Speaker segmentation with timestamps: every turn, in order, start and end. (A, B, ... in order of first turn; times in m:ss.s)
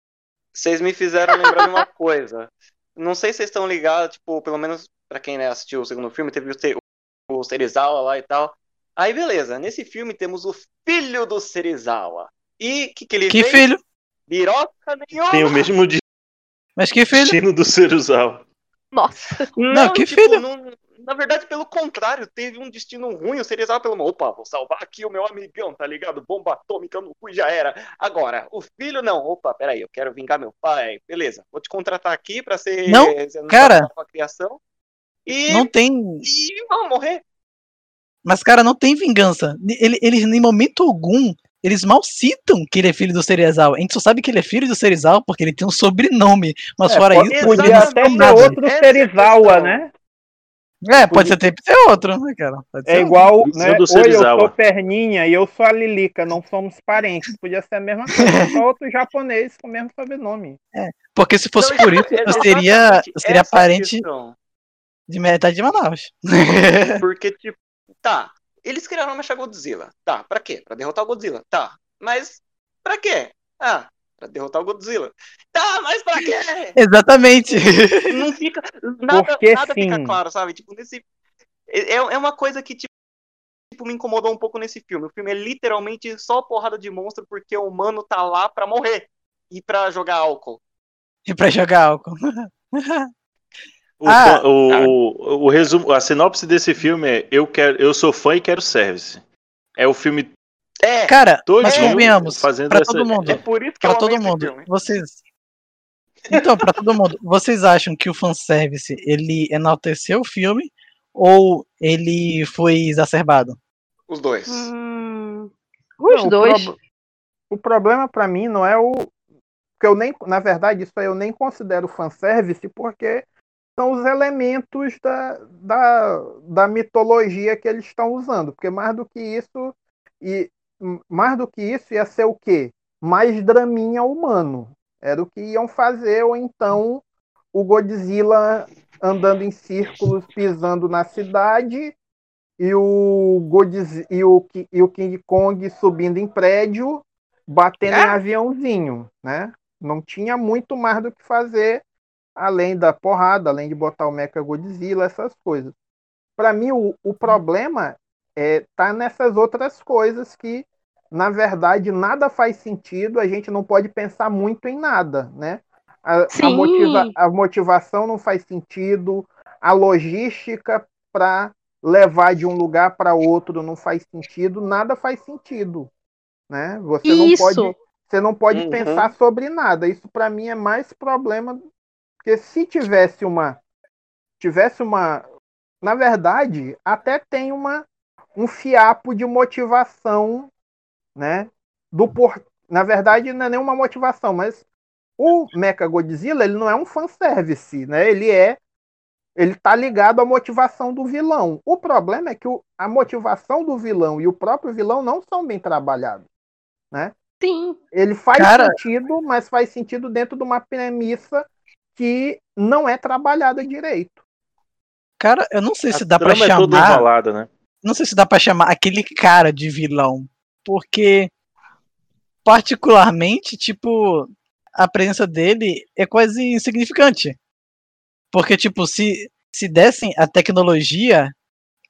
0:00.5-0:13.6 A
0:01.3-0:01.8 B
0:13.3-0:13.8 C
0:14.3-0:15.6 A
0:15.3-0:16.0 D
0:16.8-0:17.4 C
0:17.1-0:18.4 D
0:18.9-0:19.5 B
0:19.6-0:34.6 A
0:19.7-0:20.4 C
0:32.9-0:33.9 C
0:35.2-0:35.7 A
0:35.5-0:36.2 C
0:36.2-0:37.2 A
0:38.2-0:48.5 C
0:46.9-0:49.9 E
0:47.2-0:49.8 A
0:50.8-0:53.2 C
0:50.9-0:51.4 E
0:52.9-1:00.6 E
0:53.4-0:54.5 D
1:00.7-1:04.0 C
1:01.6-1:04.3 A
1:02.2-1:02.5 E
1:05.1-1:07.0 C
1:07.0-1:16.7 A
1:16.8-1:18.2 C
1:18.1-1:21.0 A
1:19.1-1:20.2 E
1:21.7-1:22.9 A
1:23.7-1:30.6 A
1:31.2-1:33.1 C
1:34.0-1:39.2 D
1:34.1-1:34.4 C
1:34.7-1:34.9 A
1:39.8-1:40.3 D
1:40.8-1:42.0 A
1:41.1-1:45.2 C
1:41.5-1:43.4 D
1:43.2-1:44.7 A
1:46.3-1:53.6 C
1:54.1-1:54.7 A
1:54.5-1:56.7 B
1:56.1-1:56.8 E
1:57.5-1:59.1 E
1:59.8-2:03.2 E
2:03.8-2:21.9 E
2:22.6-2:31.8 E
2:27.9-2:28.2 A
2:32.4-2:35.7 E
2:36.4-2:55.9 E
2:46.3-2:47.1 B
2:56.5-3:01.6 E
2:57.0-2:57.7 B
2:58.5-2:59.1 A
3:02.2-3:03.6 E
3:04.4-3:05.2 E
3:05.8-3:10.5 E
3:11.2-3:14.6 E
3:15.2-3:18.6 E
3:19.4-3:26.3 E
3:27.4-3:27.8 B
3:27.9-3:34.2 E
3:28.4-3:28.8 C
3:35.2-3:37.0 C
3:35.9-3:37.5 D
3:37.8-3:41.3 C
3:42.4-3:47.4 C
3:48.3-3:51.3 C